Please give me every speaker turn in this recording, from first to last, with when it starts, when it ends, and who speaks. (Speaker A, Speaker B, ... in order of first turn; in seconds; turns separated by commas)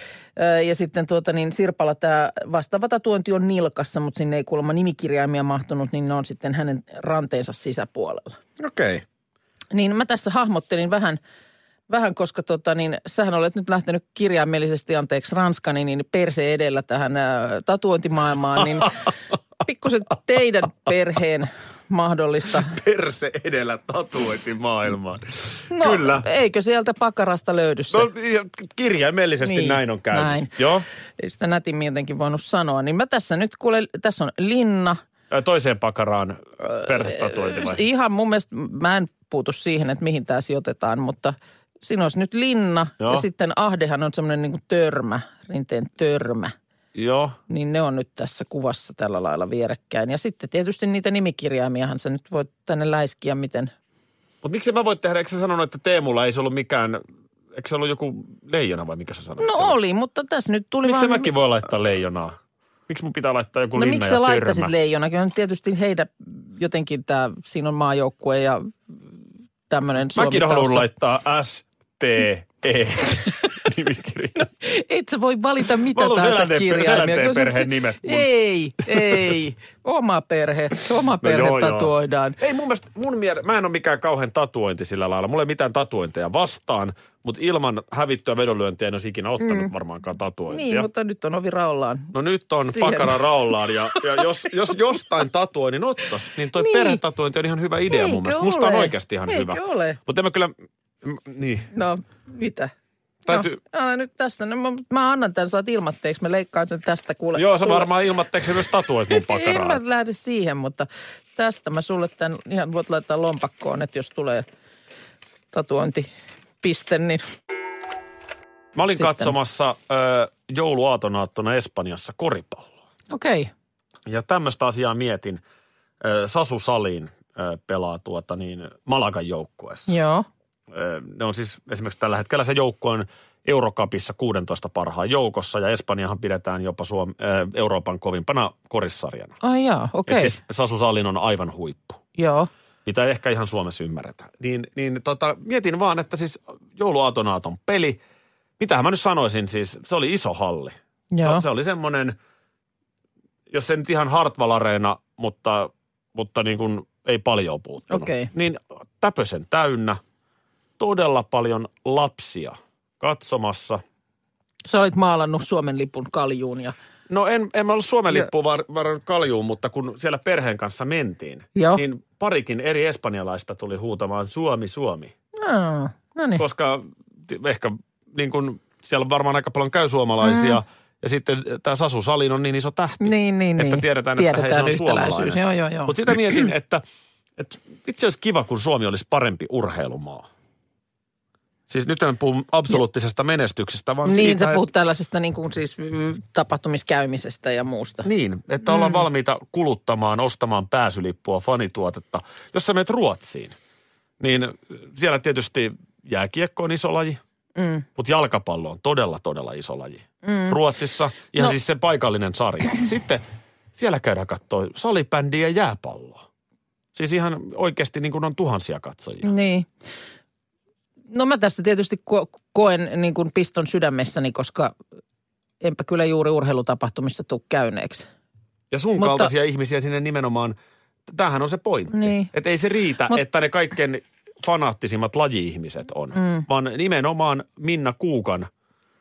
Speaker A: 0.4-8.4, Speaker B: 8.6-9.0, Speaker A: 9.7-11.2, Speaker A: 11.9-19.0, Speaker A: 19.6-22.7, Speaker B: 22.7-26.3, Speaker A: 25.7-28.1, Speaker B: 27.9-30.9, Speaker A: 29.4-30.5, Speaker A: 31.2-35.0, Speaker B: 35.3-37.8, Speaker A: 36.6-46.5, Speaker B: 47.0-47.4, Speaker A: 47.5-53.7, Speaker B: 54.4-57.0, Speaker B: 57.5-59.8, Speaker A: 59.4-61.3, Speaker B: 60.9-62.4, Speaker B: 62.9-64.7, Speaker A: 63.8-68.7, Speaker A: 69.7-70.9, Speaker B: 70.2-74.5, Speaker A: 74.6-82.4, Speaker B: 76.0-78.3, Speaker B: 78.8-79.3, Speaker B: 81.2-90.9, Speaker A: 89.4-89.7, Speaker A: 90.5-92.1, Speaker B: 92.1-101.7, Speaker A: 92.7-94.3, Speaker A: 96.5-97.0, Speaker A: 97.9-100.0, Speaker A: 101.7-102.7, Speaker B: 103.3-103.6, Speaker A: 103.3-107.9, Speaker B: 107.4-109.8, Speaker A: 109.1-114.5, Speaker A: 115.5-116.1, Speaker A: 116.6-117.2, Speaker B: 118.8-122.7, Speaker A: 119.0-119.3, Speaker A: 123.1-123.5, Speaker B: 124.1-125.4, Speaker B: 126.0-129.9, Speaker A: 129.9-130.3, Speaker B: 130.7-139.3, Speaker A: 139.4-140.3, Speaker B: 140.1-142.0, Speaker A: 142.2-142.5, Speaker B: 142.9-148.0, Speaker B: 148.6-152.2, Speaker A: 151.1-151.4, Speaker B: 153.5-160.0, Speaker A: 157.9-158.3, Speaker B: 160.8-163.8, Speaker A: 164.7-166.7, Speaker B: 167.1-175.1, Speaker A: 171.6-171.8, Speaker A: 175.4-176.4, Speaker B: 176.4-186.8, Speaker A: 180.2-180.6, Speaker A: 183.0-186.5, Speaker B: 187.4-190.3, Speaker B: 191.7-194.6, Speaker A: 194.1-198.1, Speaker B: 198.1-203.6, Speaker A: 198.7-199.1, Speaker B: 204.2-207.2, Speaker A: 207.6-207.9, Speaker B: 208.0-213.2, Speaker A: 210.2-210.6, Speaker B: 213.8-216.2, Speaker B: 216.9-219.3, Speaker A: 219.2-219.7, Speaker A: 221.1-224.8, Speaker A: 225.6-228.1, Speaker B: 228.7-230.6, Speaker A: 229.0-229.3, Speaker B: 231.1-238.5, Speaker A: 231.9-232.3, Speaker A: 236.1-236.5